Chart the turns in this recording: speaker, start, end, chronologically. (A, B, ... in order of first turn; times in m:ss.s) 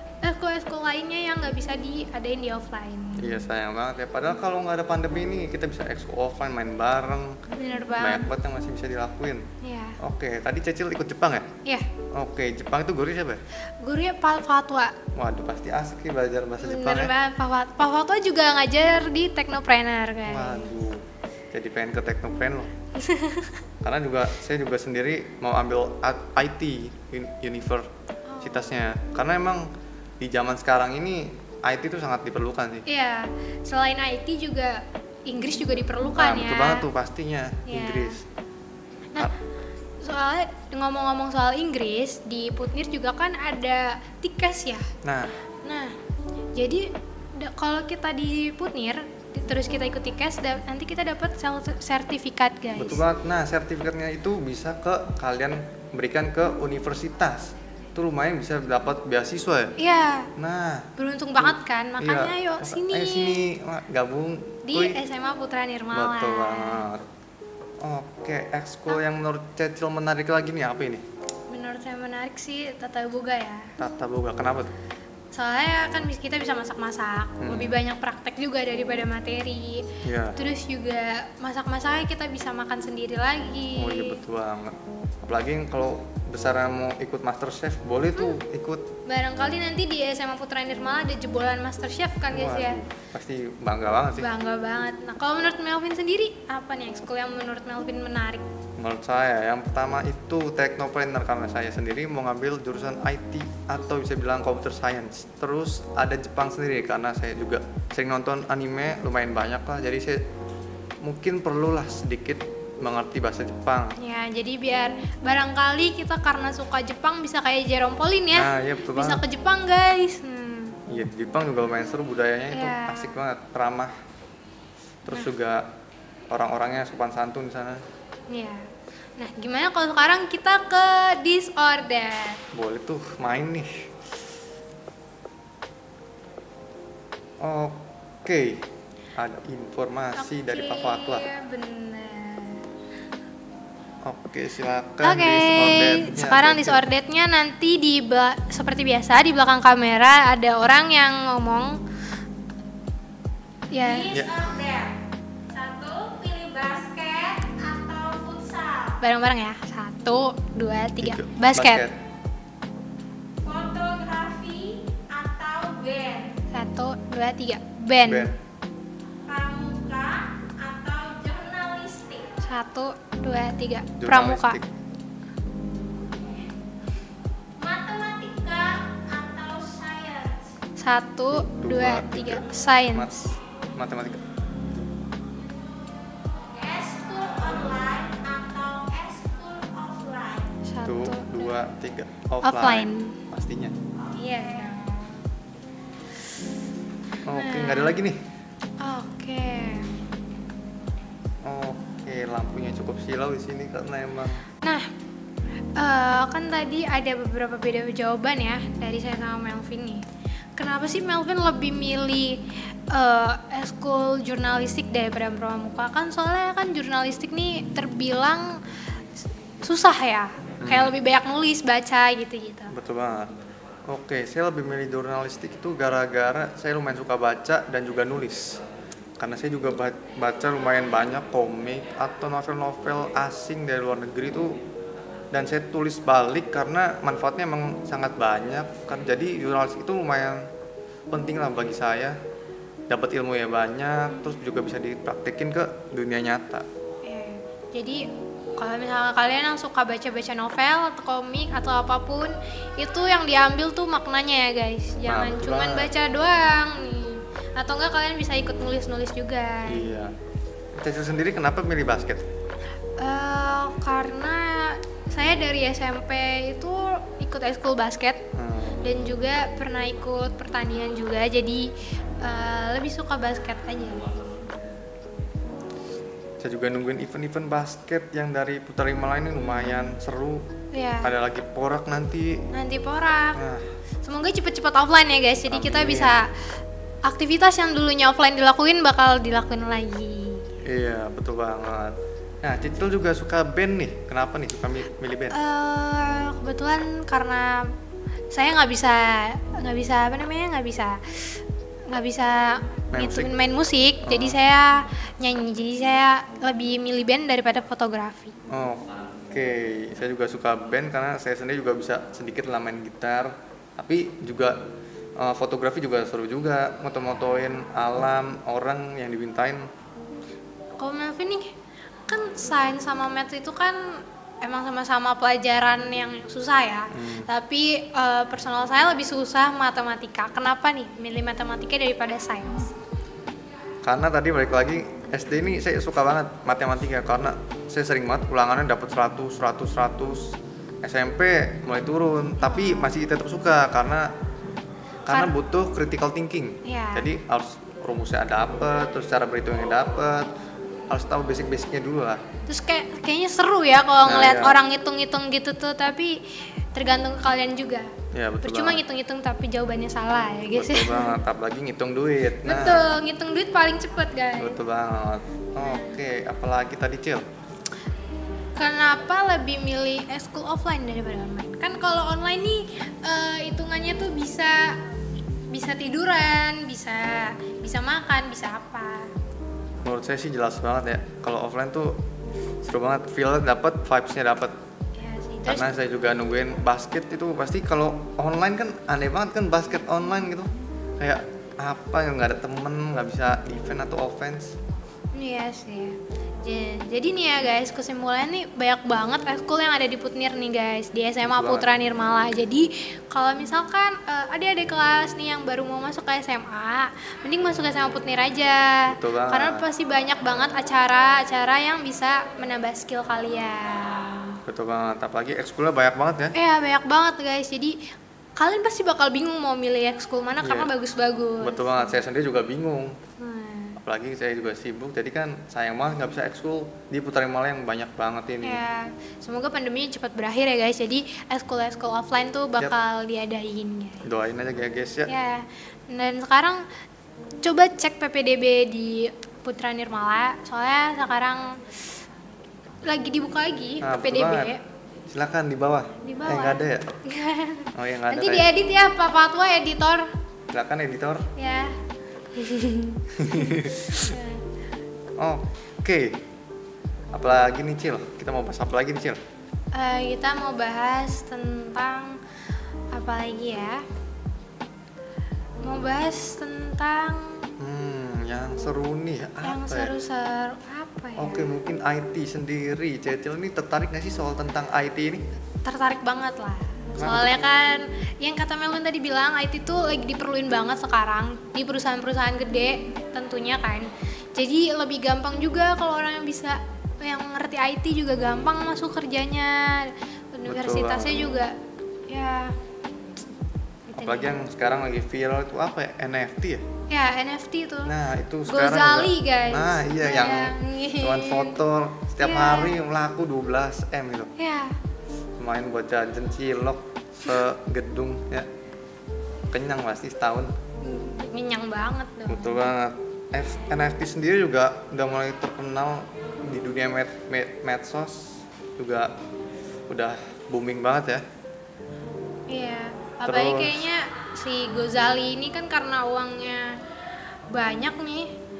0:00.2-0:03.3 A
0:03.2-0:07.4 B
0:07.5-0:08.3 A
0:08.0-0:09.4 B
0:09.6-0:10.0 A
0:10.0-0:11.5 B
0:12.1-0:13.4 B
0:13.8-0:15.0 A
0:15.2-0:17.1 B
0:16.6-0:20.7 A
0:20.3-0:22.7 B
0:23.0-0:23.6 A
0:23.8-0:27.9 B
0:28.3-0:28.8 A
0:28.4-0:29.7 B
0:30.2-0:32.9 B
0:32.9-0:36.9 A
0:36.2-0:38.2 B
0:37.6-0:38.2 A
0:40.0-0:44.9 A
0:45.0-0:45.4 B
0:45.6-0:46.0 A
0:46.6-0:53.0 A
0:52.8-0:59.7 B
0:59.8-1:00.3 A
1:00.4-1:05.0 B
1:01.0-1:03.5 A
1:04.6-1:06.8 A
1:05.9-1:07.0 B
1:07.8-1:11.0 B
1:11.5-1:13.7 A
1:13.8-1:14.7 B
1:15.3-1:24.2 A
1:17.4-1:17.8 B
1:20.0-1:20.4 B
1:23.8-1:24.8 B
1:25.3-1:28.9 B
1:29.0-1:32.8 A
1:32.3-1:34.3 B
1:34.2-1:38.4 A
1:38.8-1:50.2 B
1:51.0-1:54.0 B
1:54.0-2:00.8 A
1:58.3-1:59.2 B
2:00.9-2:03.9 B
2:02.5-2:03.2 A
2:05.0-2:05.7 B
2:06.3-2:07.8 B
2:08.3-2:08.6 A
2:09.2-2:12.4 A
2:12.5-2:13.9 B
2:17.4-2:21.3 B
2:20.2-2:22.7 A
2:24.0-2:26.9 B
2:25.0-2:31.8 A
2:33.7-2:34.1 A
2:33.8-2:35.0 C
2:34.1-2:34.4 B
2:35.5-2:39.0 C
2:39.0-2:41.9 A
2:41.0-2:42.0 B
2:43.4-2:46.4 C
2:46.5-2:48.3 A
2:48.0-2:48.4 B
2:49.2-2:52.4 C
2:52.4-2:54.6 A
2:54.0-2:54.7 B
2:57.6-3:00.6 C
3:00.8-3:03.3 A
3:01.3-3:04.2 B
3:06.4-3:10.5 C
3:10.6-3:11.6 A
3:10.8-3:13.8 B
3:12.4-3:13.2 A
3:14.2-3:15.3 A
3:17.2-3:18.2 B
3:17.3-3:18.0 A
3:18.8-3:20.0 A
3:21.4-3:24.4 B
3:24.6-3:24.9 A
3:25.8-3:30.0 A
3:30.6-3:38.6 A
3:39.6-3:42.7 A
3:40.6-3:41.0 B
3:42.7-3:43.3 B
3:43.9-3:48.6 B
3:49.2-3:54.6 B
3:55.3-4:00.5 B
4:01.1-4:02.2 B
4:02.9-4:06.7 B
4:07.0-4:08.0 A
4:08.6-4:19.9 A
4:15.0-4:15.9 B
4:19.7-4:20.1 B
4:20.8-4:22.3 B
4:23.0-4:28.2 A
4:28.3-4:28.8 B
4:28.8-4:34.1 A
4:36.4-4:40.5 B
4:40.7-4:41.2 A
4:41.0-4:42.5 B
4:42.5-4:43.4 A
4:43.3-4:43.6 B
4:44.0-4:46.3 A
4:45.5-4:46.2 B
4:47.0-4:50.5 A
4:50.6-4:55.4 B
4:55.3-4:57.7 A
4:58.3-5:08.4 A
5:02.9-5:03.3 B
5:04.0-5:04.4 B
5:08.5-5:14.6 B
5:15.2-5:19.7 B
5:20.8-5:21.5 A
5:22.1-5:32.7 A
5:26.9-5:27.3 B
5:33.8-5:44.1 B
5:42.4-5:42.9 A
5:45.1-5:50.3 B
5:45.1-5:45.3 A
5:46.6-5:47.1 A
5:50.9-5:52.2 B
5:52.5-6:01.2 A
5:54.0-5:54.6 B
5:58.1-5:58.8 B
6:00.5-6:02.9 B
6:02.4-6:04.6 A
6:04.4-6:07.2 B
6:05.6-6:05.9 A
6:08.6-6:14.8 A
6:15.5-6:19.1 A
6:19.8-6:22.0 B
6:22.6-6:24.6 B
6:25.0-6:25.7 A
6:25.4-6:34.6 B
6:35.1-6:54.4 A
6:41.2-6:41.8 B
6:48.9-6:49.7 B
6:54.5-6:56.4 B
6:56.3-6:57.8 A
6:58.4-7:01.9 A
7:00.4-7:00.7 B
7:01.4-7:03.0 B
7:03.2-7:03.8 A
7:03.8-7:08.6 B
7:08.4-7:14.1 A
7:14.0-7:15.1 B
7:15.1-7:16.6 A
7:17.4-7:21.6 A
7:22.8-7:24.6 A
7:23.8-7:24.6 B
7:25.1-7:27.0 B
7:26.0-7:30.1 A
7:27.8-7:28.5 B
7:30.5-7:31.2 B
7:31.4-7:31.8 A
7:32.4-7:34.4 A
7:33.2-7:34.1 B
7:35.2-7:36.2 B
7:37.1-7:39.2 B
7:39.7-7:42.2 A
7:42.9-7:43.8 A
7:45.6-7:47.5 A
7:47.6-7:50.0 B
7:49.4-7:51.5 A
7:51.2-7:55.2 B
7:55.6-8:11.6 A
7:57.0-7:57.6 B
8:10.5-8:11.4 B
8:12.1-8:12.6 A
8:13.9-8:14.4 A
8:14.0-8:16.6 B
8:16.9-8:17.9 A
8:17.8-8:24.3 B
8:18.5-8:21.6 A
8:22.2-8:22.8 A
8:24.4-8:24.8 A
8:25.4-8:28.5 B
8:29.5-8:30.5 B
8:30.8-8:32.7 A
8:32.3-8:39.1 B
8:39.9-8:41.2 B
8:42.5-8:46.8 A
8:43.2-8:43.9 B
8:47.5-8:48.3 A